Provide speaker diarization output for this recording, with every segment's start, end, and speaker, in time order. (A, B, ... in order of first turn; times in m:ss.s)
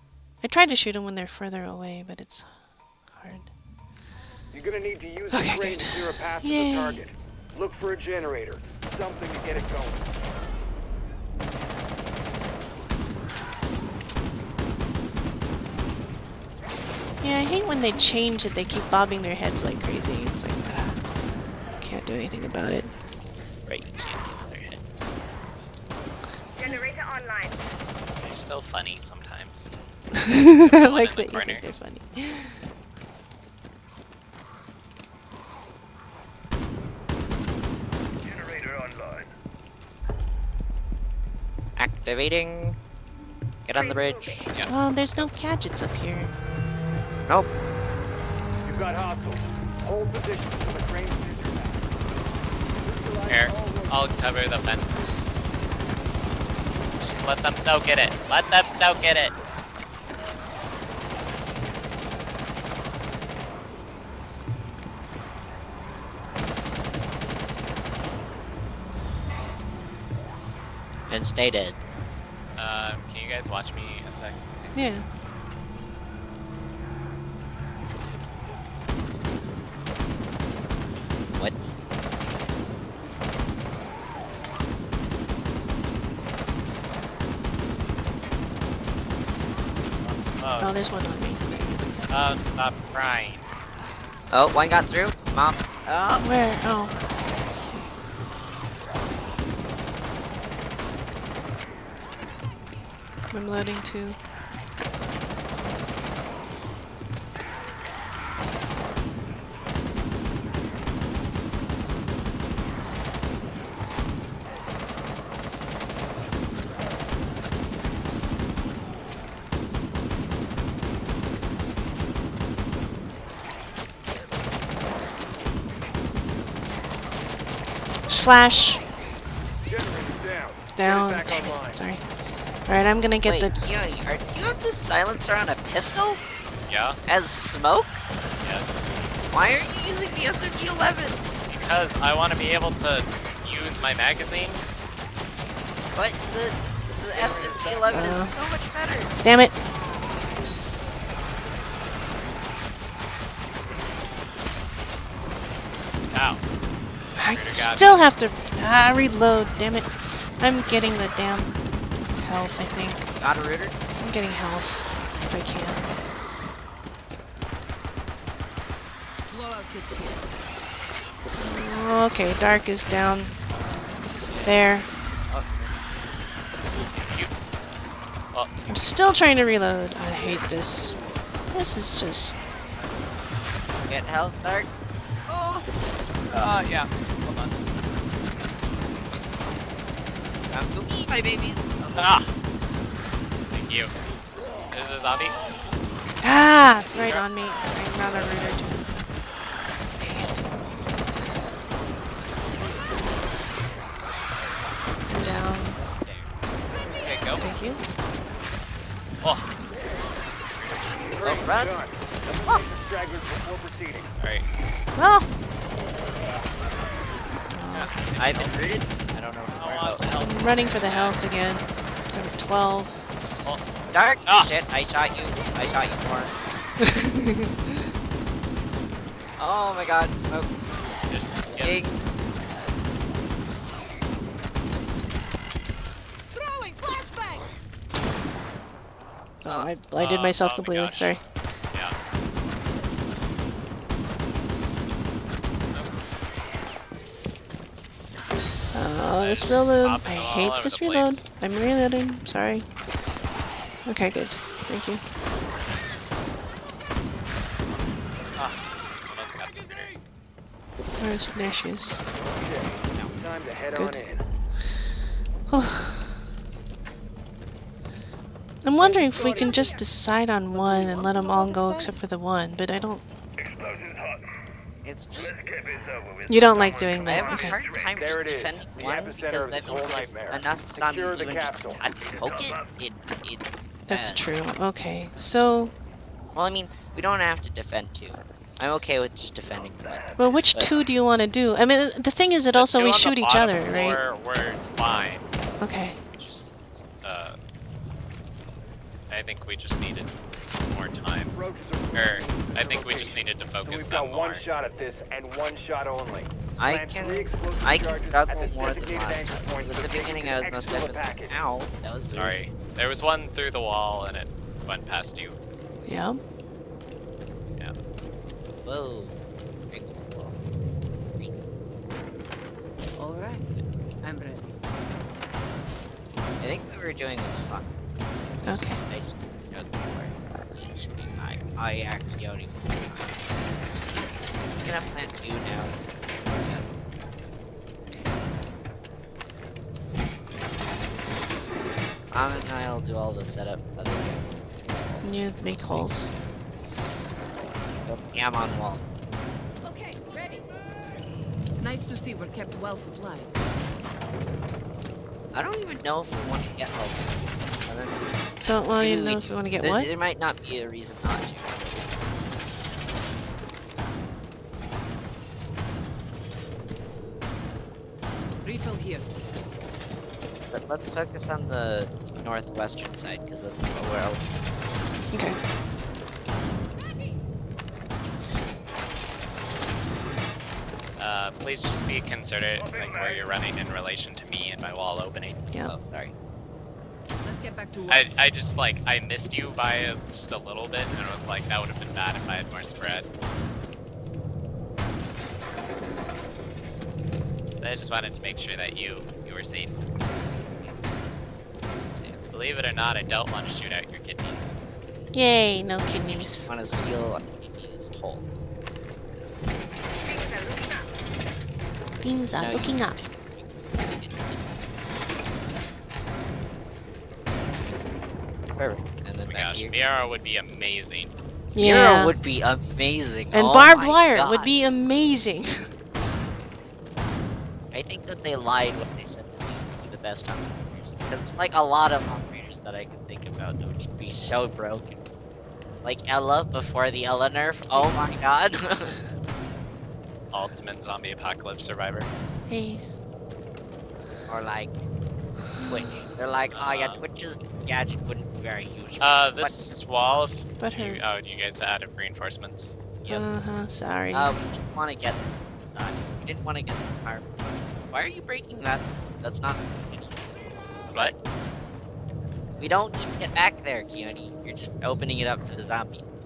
0:00.4-0:02.5 A
0:03.1-0:03.5 A
0:04.5-0:10.1 B
0:05.3-0:07.0 A
0:17.2-0:21.0 A
0:21.8-0:22.9 A
0:23.7-0:24.8 C
0:26.6-0:27.6 D
0:28.2-0:29.8 E
0:30.2-0:32.6 A
0:30.5-0:31.7 E
0:41.8-0:42.8 C
0:43.6-0:44.6 C
0:43.7-0:44.6 D
0:44.7-0:46.3 A
0:48.6-0:52.0 B
0:52.8-0:54.1 B
0:53.3-0:55.2 E
0:57.0-0:59.3 E
1:11.1-1:11.8 C
1:12.6-1:14.8 E
1:14.8-1:15.1 A
1:30.0-1:30.8 E
1:30.6-1:31.9 A
1:32.1-1:33.4 E
1:34.3-1:36.3 C
1:36.2-1:36.9 A
1:43.3-1:44.2 A
2:08.1-2:08.8 A
2:09.6-2:11.8 B
2:10.8-2:12.0 A
2:12.7-2:13.6 A
2:13.2-2:16.2 C
2:16.7-2:17.0 E
2:17.1-2:18.0 C
2:18.4-2:18.8 E
2:19.3-2:21.3 C
2:21.5-2:24.6 E
2:25.9-2:29.2 C
2:27.2-2:28.0 B
2:27.9-2:28.4 A
2:29.2-2:29.6 A
2:30.1-2:30.4 E
2:36.1-2:36.4 E
2:37.2-2:41.6 A
2:37.2-2:38.0 E
2:42.2-2:43.1 A
2:43.2-2:43.8 C
2:44.0-2:45.9 A
2:49.3-2:50.3 F
2:51.4-2:53.4 A
2:54.3-2:54.6 C
2:54.4-2:54.9 A
2:55.3-2:55.7 C
2:56.9-2:57.3 E
2:58.3-2:58.7 E
2:58.7-3:01.0 A
3:01.5-3:02.3 A
3:03.9-3:04.7 C
3:05.3-3:05.7 C
3:06.3-3:07.6 E
3:10.5-3:12.2 C
3:12.0-3:12.3 E
3:13.5-3:13.9 E
3:14.7-3:15.4 E
3:16.2-3:19.1 A
3:17.0-3:17.2 E
3:20.0-3:20.5 A
3:25.1-3:25.8 A
3:25.8-3:26.3 C
3:27.0-3:27.5 E
3:27.4-3:27.8 A
3:29.2-3:29.5 E
3:30.6-3:31.4 E
3:31.1-3:34.1 B
3:31.2-3:31.8 C
3:34.2-3:34.5 E
3:35.0-3:35.3 A
3:37.5-3:38.1 A
3:37.7-3:38.8 E
3:38.2-3:40.1 C
3:39.6-3:41.2 E
3:40.2-3:43.0 A
3:43.9-3:46.4 C
3:46.8-3:47.8 A
3:49.4-3:50.5 C
3:51.1-3:51.8 E
3:51.6-3:52.2 C
3:56.3-3:57.5 F
3:59.4-4:01.2 A
3:59.9-4:01.2 E
4:08.7-4:12.7 A
4:09.2-4:11.3 E
4:13.9-4:15.0 A
4:18.4-4:19.9 E
4:21.0-4:22.0 A
4:22.2-4:24.2 B
4:25.5-4:26.2 A
4:28.6-4:33.1 A
4:28.8-4:29.8 F
4:30.5-4:32.0 F
4:34.8-4:35.5 C
4:36.3-4:37.6 A
4:37.0-4:44.3 C
4:38.0-4:41.8 B
4:43.9-4:45.7 A
4:46.3-4:50.8 C
4:50.2-4:54.0 A
4:52.5-4:55.3 E
4:55.6-4:56.0 A
4:56.1-4:57.4 E
4:59.1-5:01.3 E
5:01.3-5:11.4 B
5:01.9-5:04.4 E
5:06.6-5:12.4 C
5:12.1-5:15.4 E
5:15.8-5:16.2 A
5:18.6-5:19.2 C
5:19.7-5:20.4 C
5:23.0-5:23.5 F
5:24.0-5:24.5 F
5:26.4-5:27.8 C
5:28.4-5:28.8 A
5:28.5-5:33.2 C
5:34.5-5:35.8 C
5:42.1-5:44.4 C
5:45.0-5:46.1 A
5:45.6-5:46.1 C
5:47.8-5:48.9 C
5:49.7-5:50.3 D
5:50.0-5:50.4 F
5:51.6-5:53.4 F
5:55.3-6:01.9 C
5:58.5-5:59.9 A
6:08.4-6:09.1 F
6:10.5-6:14.2 C
6:15.1-6:15.4 A
6:21.0-6:26.1 E
6:27.2-6:28.1 F
6:27.9-6:33.1 E
6:37.6-6:39.8 E
6:42.1-6:44.7 E
6:45.1-6:46.5 A
6:46.1-6:48.3 C
6:50.0-6:50.9 D
6:52.0-6:53.0 A
6:52.4-6:54.7 C
6:58.6-6:59.8 C
6:59.3-7:01.1 E
7:01.6-7:02.2 A
7:01.6-7:04.5 C
7:03.3-7:05.7 A
7:07.7-7:15.0 C
7:15.8-7:19.0 C
7:20.3-7:22.1 E
7:22.5-7:22.9 A
7:24.3-7:24.8 C
7:25.5-7:26.0 A
7:25.6-7:29.8 C
7:26.5-7:27.0 E
7:29.0-7:32.8 E
7:30.6-7:31.0 A
7:33.1-7:34.3 A
7:34.1-7:37.3 C
7:37.9-7:41.2 C
7:42.6-7:46.1 C